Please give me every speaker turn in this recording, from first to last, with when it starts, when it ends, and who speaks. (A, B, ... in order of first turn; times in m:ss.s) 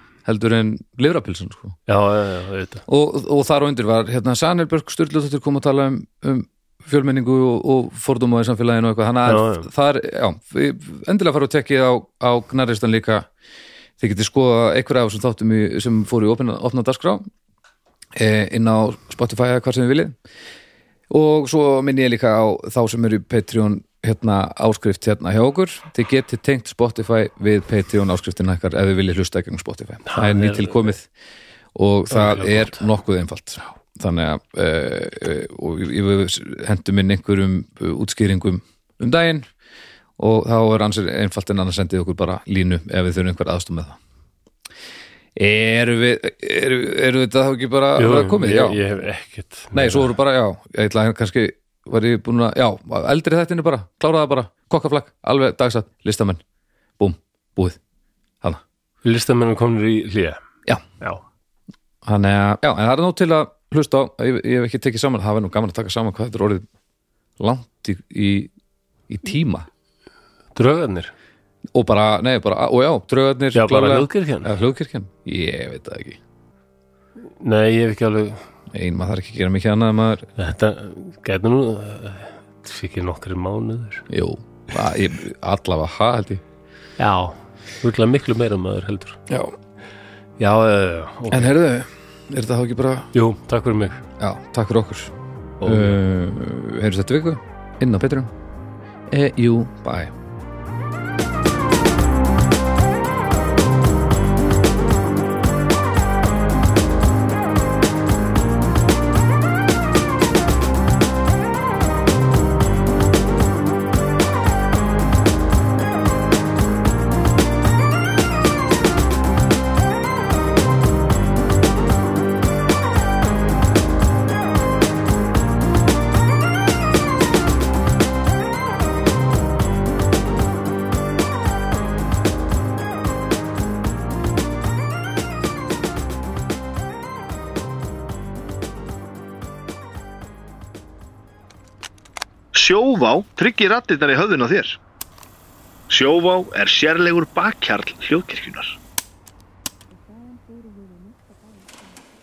0:00.2-0:01.8 A
0:01.9-0:02.8 B
0:02.9-0:13.3 A
0:09.2-0:09.7 B
0:14.0-0:17.2 A
0:18.2-0:20.1 A
0:21.1-0:31.1 A
0:30.0-0:30.9 B
0:31.7-0:39.4 A
0:32.1-0:32.9 B
0:40.2-0:44.0 A
0:45.4-0:48.8 A
0:48.0-0:50.1 B
0:49.7-0:56.4 A
0:57.0-0:57.8 A
0:59.0-1:00.4 B
1:02.0-1:06.6 A
1:07.4-1:08.5 A
1:09.1-1:09.7 A
1:10.6-1:11.1 B
1:11.7-1:16.2 A
1:13.5-1:14.5 B
1:17.4-1:18.4 B
1:18.7-1:20.3 A
1:20.4-1:24.0 B
1:24.1-1:26.4 A
1:27.0-1:29.2 B
1:29.3-1:29.5 A
1:30.4-1:31.5 B
1:31.3-1:33.1 A
1:33.1-1:34.0 B
1:34.2-1:38.3 A
1:35.6-1:35.9 B
1:39.1-1:40.1 A
2:22.5-2:24.8 C
2:25.9-2:28.8 C